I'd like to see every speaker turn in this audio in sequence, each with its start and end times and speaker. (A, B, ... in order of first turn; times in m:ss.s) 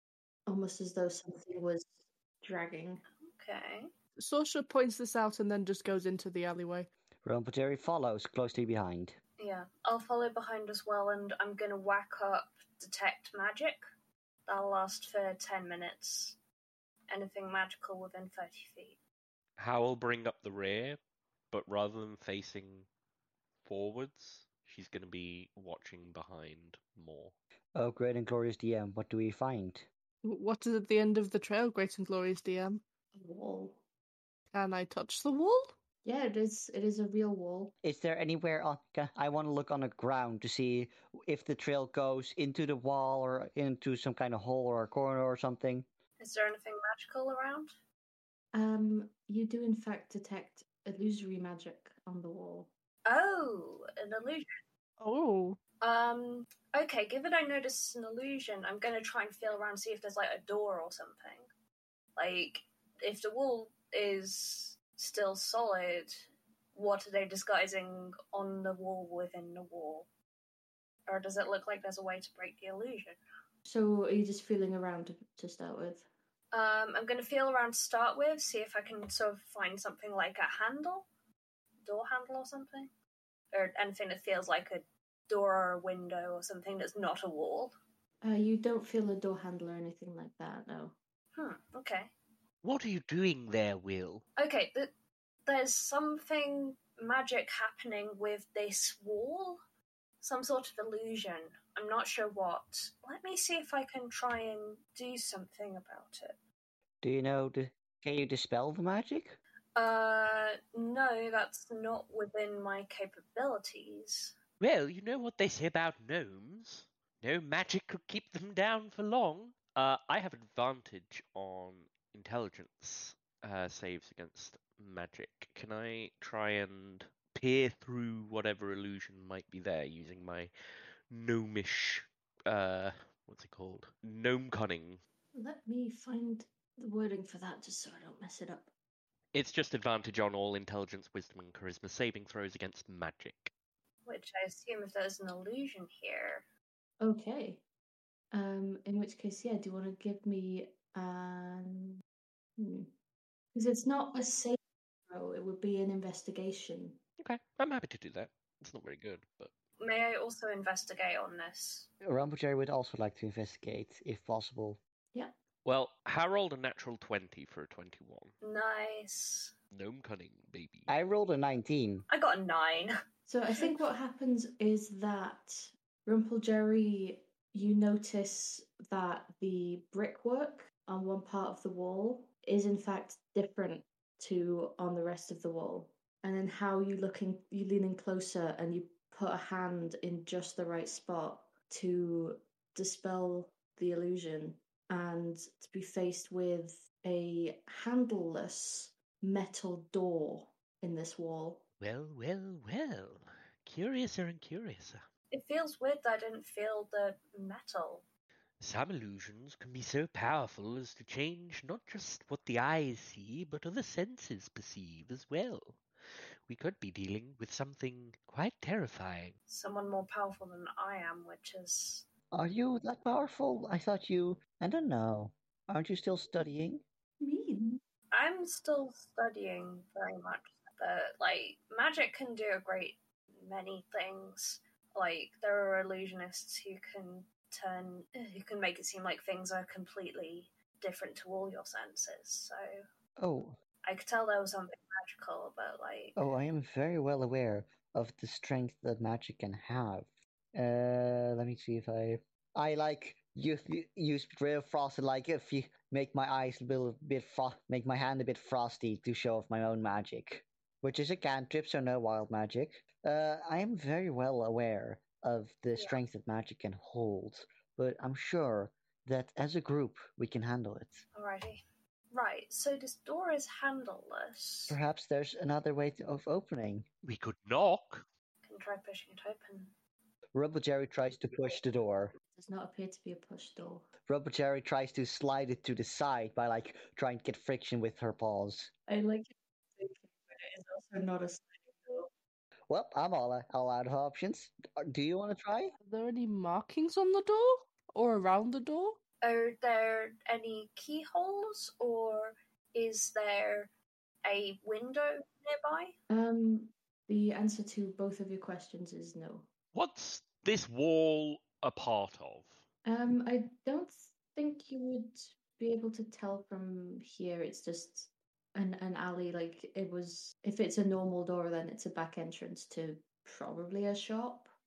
0:00.5-0:01.9 A
0:02.4-0:03.0 A
0:03.3-0:03.9 B
0:04.2-0:06.9 C
0:07.2-0:09.2 D
0:09.4-0:13.8 B
0:14.4-0:16.4 B
0:17.1-0:19.0 B
0:19.6-0:21.0 E
0:21.5-0:22.9 E
0:23.6-0:27.3 E
0:27.7-0:29.9 D
0:30.2-0:32.8 C
0:33.1-0:33.8 A
0:34.5-0:35.7 C
0:36.0-0:37.7 A
0:37.8-0:45.8 D
0:46.2-0:47.7 B
0:48.5-0:52.7 A
0:53.0-0:54.5 B
0:55.0-0:55.6 C
0:55.8-1:01.5 B
1:02.2-1:10.1 B
1:11.1-1:13.2 B
1:13.6-1:16.1 A
1:16.5-1:21.1 B
1:21.8-1:22.9 B
1:23.5-1:27.8 B
1:28.2-1:31.0 A
1:31.3-1:32.1 B
1:32.6-1:34.2 E
1:34.4-1:34.9 B
1:35.4-1:39.6 B
1:40.2-1:46.4 B
1:47.0-1:49.4 D
1:49.8-1:54.3 B
1:54.6-2:10.5 E
2:11.1-2:15.0 E
2:15.3-2:18.7 A
2:19.3-2:23.5 E
2:24.0-2:26.4 B
2:27.0-2:27.6 A
2:28.3-2:32.0 A
2:32.6-2:32.9 A
2:33.5-2:34.6 A
2:35.1-2:37.0 A
2:37.2-2:39.5 E
2:39.8-2:41.9 B
2:42.0-2:44.8 D
2:45.6-2:48.3 E
2:48.4-2:49.5 B
2:49.7-2:50.9 E
2:50.9-2:52.0 D
2:52.1-2:52.9 B
2:53.3-3:21.6 A
3:21.8-3:25.0 E
3:25.3-3:28.0 B
3:28.6-3:35.8 E
3:36.5-3:39.4 E
3:39.5-3:42.0 B
3:42.3-3:46.8 D
3:47.2-3:47.8 A
3:48.1-4:02.8 B
4:03.2-4:03.6 D
4:03.8-4:06.2 B
4:06.2-4:31.0 D
4:31.1-4:31.6 B
4:32.1-4:34.8 B
4:34.7-4:36.9 D
4:37.0-4:38.0 E
4:38.4-4:39.7 B
4:40.3-4:42.1 D
4:42.3-4:43.9 A
4:44.1-4:48.7 D
4:48.9-4:52.1 A
4:52.7-4:55.7 D
4:55.8-4:59.0 C
4:59.2-5:03.7 B
5:04.2-5:05.9 B
5:06.1-5:09.5 A
5:09.7-5:12.6 E
5:12.8-5:24.5 A